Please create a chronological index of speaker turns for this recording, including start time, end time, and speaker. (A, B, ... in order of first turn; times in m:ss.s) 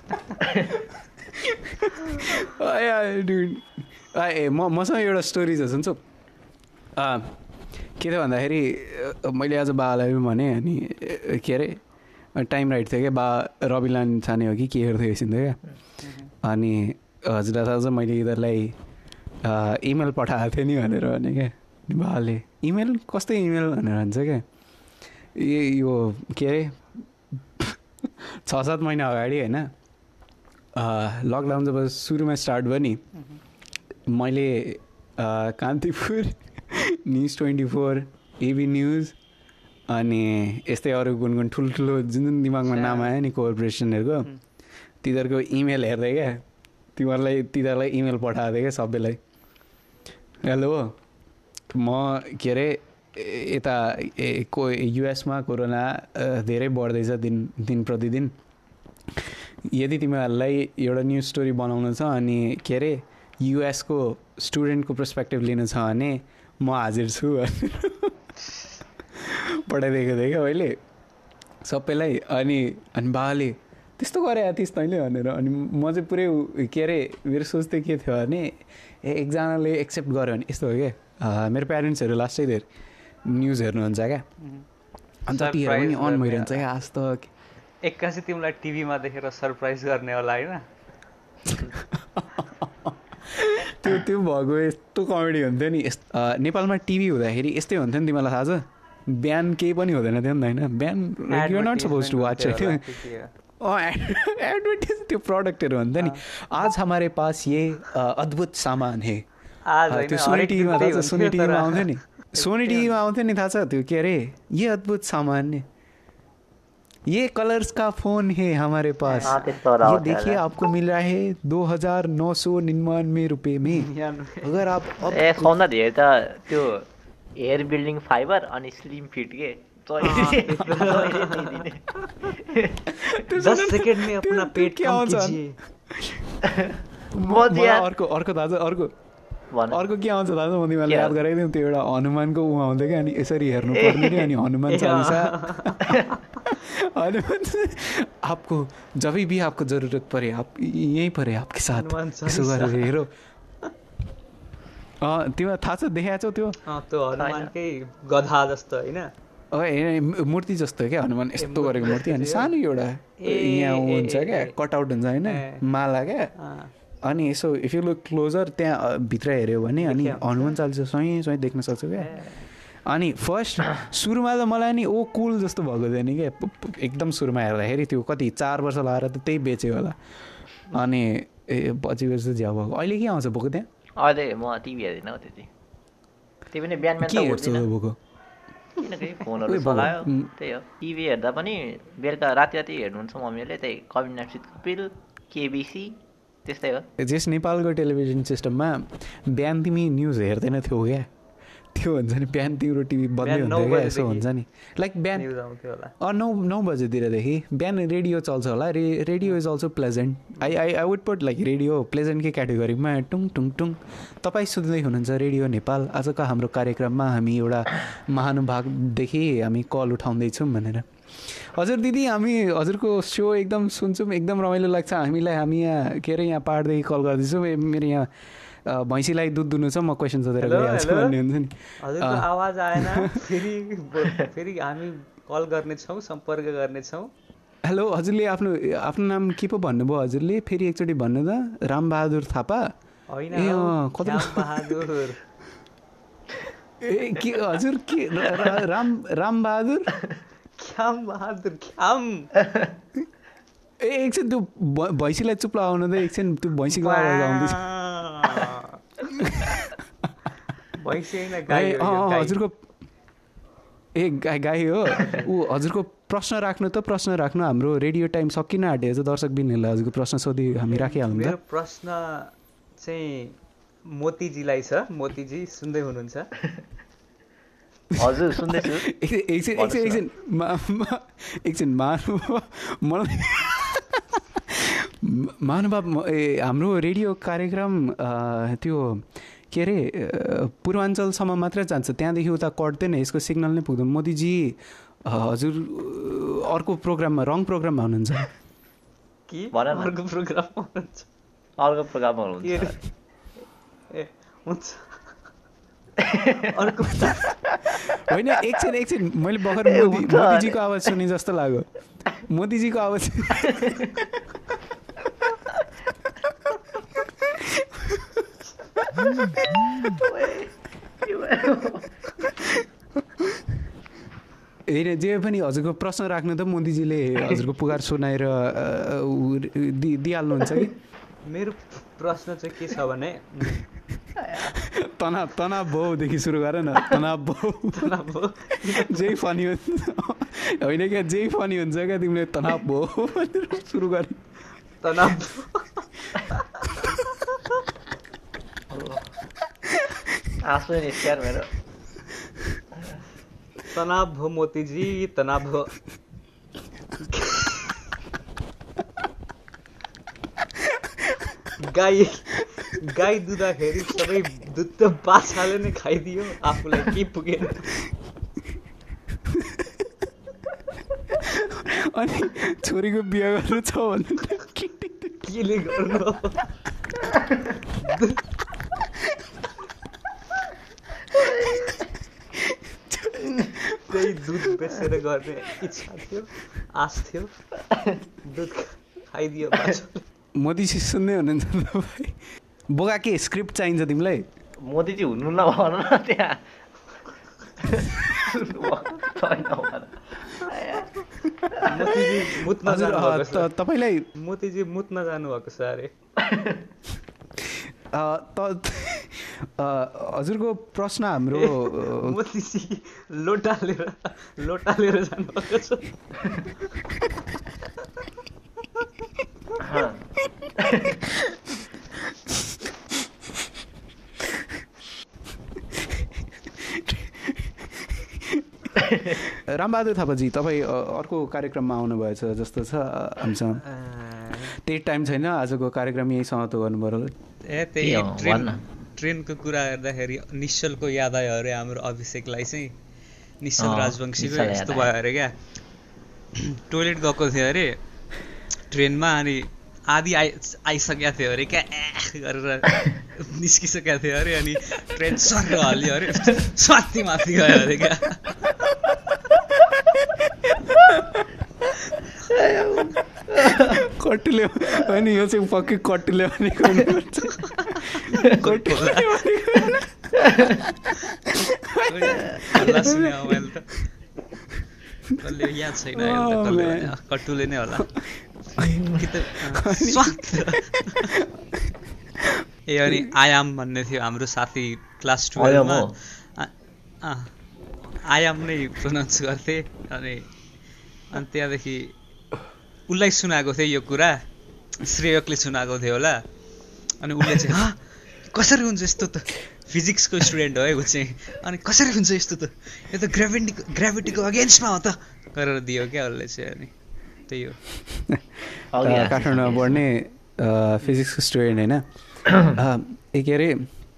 0:00.5-0:00.7 A
0:00.7-0:06.0 B
0:07.0-0:07.4 B
0:08.0-0:11.8 B
0:12.4-0:15.6 B
0:16.0-0:16.3 C
0:16.4-0:18.8 B
0:19.4-0:24.4 B
0:25.4-0:29.7 B
0:30.8-0:33.0 B
0:33.1-0:33.4 C
0:34.1-0:39.2 B
0:39.9-0:44.3 B
0:42.7-0:43.1 C
0:45.0-0:46.4 B
0:47.0-0:49.2 B
0:50.4-0:51.0 B
0:51.7-0:58.4 B
0:59.1-1:08.2 B
1:09.1-1:10.8 B
1:11.6-1:22.7 B
1:23.2-1:24.2 B
1:25.3-1:27.3 B
1:25.3-1:26.6 C
1:27.8-1:30.6 C
1:31.5-1:42.9 B
1:41.3-1:43.3 C
1:43.6-1:49.3 B
1:49.7-1:52.9 C
1:49.9-1:55.6 B
1:57.1-2:05.6 B
1:59.1-1:59.4 C
1:59.2-2:00.4 A
2:03.6-2:04.6 C
2:05.1-2:12.8 A
2:10.0-2:11.6 C
2:12.9-2:18.9 B
2:13.3-2:15.6 C
2:16.5-2:17.9 A
2:19.5-2:19.8 A
2:19.7-2:25.9 B
2:20.9-2:21.2 A
2:23.7-2:24.3 A
2:24.7-2:26.2 C
2:25.9-2:26.1 A
2:26.5-2:33.1 B
2:31.7-2:33.0 C
2:35.0-2:36.6 B
2:36.7-2:39.1 C
2:37.2-2:37.5 A
2:39.5-2:46.3 B
2:41.4-2:42.5 C
2:43.2-2:44.6 C
2:45.2-2:45.6 C
2:46.4-2:46.7 C
2:47.0-2:52.3 B
2:49.8-2:50.6 C
2:52.0-2:52.4 C
2:52.9-3:00.0 B
3:00.7-3:03.7 B
3:04.0-3:05.5 A
3:06.5-3:07.7 A
3:07.0-3:08.0 B
3:08.8-3:16.9 A
3:09.5-3:10.3 B
3:17.0-3:21.1 B
3:21.7-3:25.3 B
3:23.2-3:24.3 C
3:25.2-3:25.9 C
3:26.0-3:48.1 B
3:48.6-3:53.4 B
3:50.4-3:51.2 C
3:51.8-3:57.1 C
3:57.6-4:02.7 B
4:03.1-4:05.2 C
4:03.3-4:04.9 B
4:06.8-4:10.0 B
4:10.6-4:12.3 C
4:12.4-4:12.7 A
4:13.8-4:17.7 B
4:16.7-4:18.8 C
4:19.1-4:19.8 B
4:20.8-4:22.4 C
4:21.5-4:22.7 B
4:23.9-4:31.4 B
4:30.7-4:36.3 C
4:37.9-4:58.3 B
4:38.0-4:38.9 A
4:39.5-4:40.0 A
4:59.3-5:01.1 C
4:59.5-5:00.0 A
5:01.6-5:02.8 A
5:02.4-5:02.8 C
5:03.9-5:05.1 C
5:06.0-5:06.5 A
5:06.5-5:07.4 C
5:07.9-5:14.1 B
5:09.5-5:10.9 A
5:13.6-5:13.9 A
5:17.2-5:18.1 B
5:19.0-5:19.9 B
5:19.8-5:20.5 A
5:21.0-5:21.8 A
5:24.7-5:30.7 B
5:31.3-5:33.7 C
5:34.4-5:38.0 B
5:37.7-5:39.2 C
5:38.6-5:44.2 B
5:44.8-5:46.8 C
5:48.7-5:49.0 A
5:50.4-5:51.5 A
5:53.7-5:55.8 C
5:57.1-5:57.7 C
6:01.6-6:07.8 C
6:09.3-6:09.9 B
6:11.1-6:15.3 B
6:15.3-6:16.5 C
6:17.8-6:18.2 C
6:18.8-6:19.2 B
6:21.3-6:24.6 B
6:23.9-6:27.4 C
6:28.2-6:30.0 C
6:30.4-6:34.3 B
6:34.6-6:36.5 A
6:37.6-6:40.9 A
6:41.3-6:41.7 B
6:41.6-6:43.5 C
6:42.6-6:44.1 B
6:44.2-6:45.9 C
6:46.2-6:46.6 A
6:47.4-6:52.2 B
6:51.3-6:55.9 C
6:59.6-7:00.0 A
7:00.6-7:01.1 A
7:02.1-7:02.6 B
7:04.2-7:04.6 B
7:05.7-7:13.6 B
7:08.8-7:09.2 A
7:13.7-7:14.5 C
7:14.3-7:17.2 B
7:17.5-7:22.7 C
7:17.8-7:18.6 A
7:23.4-7:25.3 C
7:23.6-7:24.9 A
7:26.4-7:27.8 C
7:28.7-7:38.7 C
7:40.4-7:41.3 B
7:42.3-7:43.8 A
7:43.3-7:53.5 B
7:47.4-7:49.2 C
7:50.2-7:50.6 A
7:51.8-7:53.7 C
7:55.1-7:57.0 B
7:55.2-7:57.9 C
7:57.8-7:58.8 B
7:58.6-7:59.1 A
7:58.9-8:01.1 C
7:59.4-8:03.1 B
8:02.7-8:06.5 C
8:05.4-8:05.9 A
8:07.0-8:07.3 C
8:08.0-8:10.3 C
8:11.1-8:11.9 C
8:12.9-8:14.2 C
8:14.8-8:16.2 C
8:17.0-8:26.7 C
8:27.3-8:27.6 C
8:27.9-8:31.8 B
8:28.7-8:29.8 A
8:32.4-8:33.7 B